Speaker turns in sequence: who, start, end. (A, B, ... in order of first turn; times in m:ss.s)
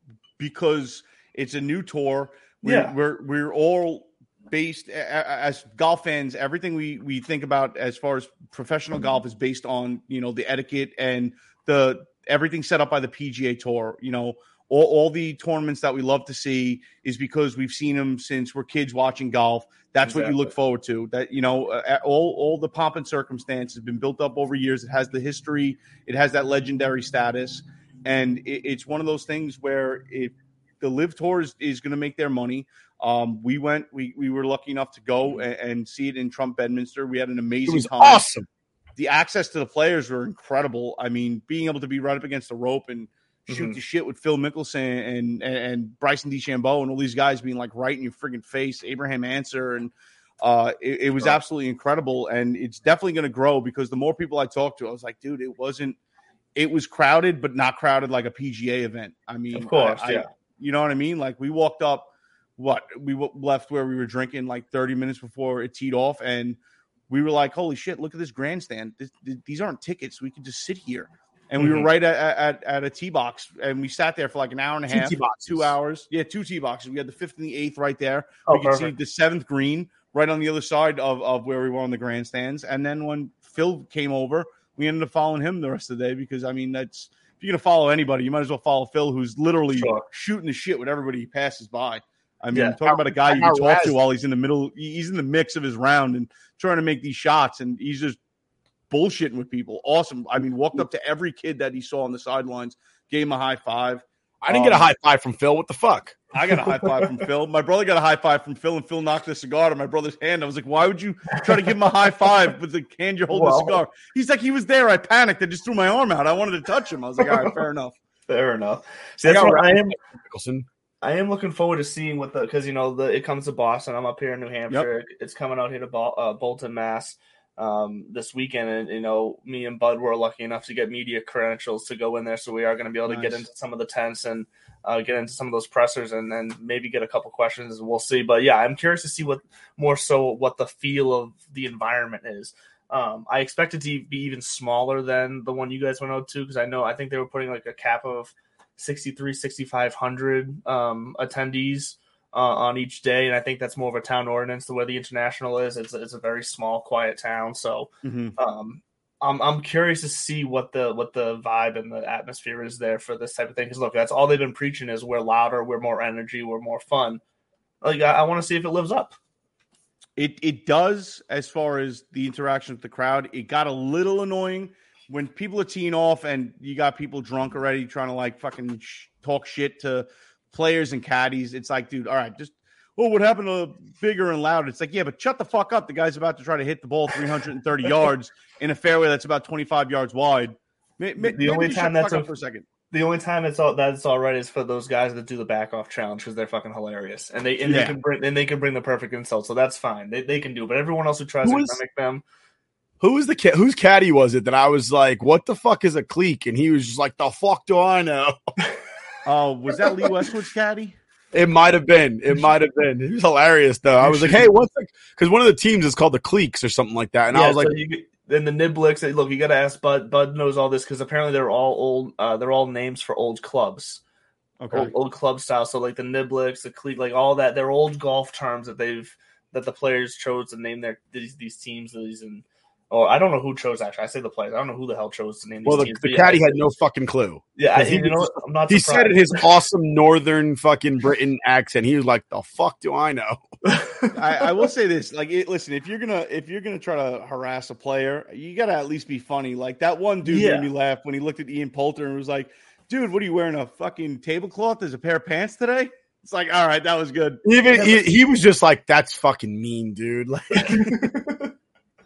0:00.4-0:38.3 A
0:02.6-0:02.9 B
0:20.0-0:20.5 B
0:37.7-0:38.4 C
0:39.0-0:56.0 A
0:43.5-0:43.8 B
0:56.6-1:06.6 A
0:59.5-1:00.3 B
1:07.1-1:38.2 A
1:11.6-1:11.9 B
1:14.9-1:15.7 C
1:18.5-1:18.9 B
1:29.7-1:30.0 B
1:32.5-1:32.8 B
1:32.8-1:34.0 C
1:38.9-1:44.9 A
1:44.4-1:46.2 C
1:46.3-1:57.9 A
1:46.7-1:47.0 B
1:53.3-1:53.8 B
1:57.2-1:57.5 B
1:58.3-2:00.0 B
1:59.2-2:00.7 C
2:01.0-2:47.2 B
2:13.1-2:13.4 A
2:38.0-2:38.4 A
2:47.8-2:49.2 B
2:50.2-3:12.6 A
3:11.2-3:12.3 B
3:12.9-3:22.2 B
3:17.6-3:18.0 A
3:21.4-3:21.8 C
3:23.0-3:28.4 C
3:29.2-3:31.0 A
3:31.3-3:37.8 C
3:34.0-3:34.3 A
3:37.3-3:44.0 B
3:44.6-3:44.9 A
3:44.7-3:56.6 B
3:55.6-4:03.4 C
3:57.6-3:59.4 B
4:03.6-4:04.6 B
4:04.1-4:17.4 A
4:10.2-4:10.7 B
4:17.4-4:21.0 C
4:17.7-4:18.0 B
4:20.6-4:21.5 B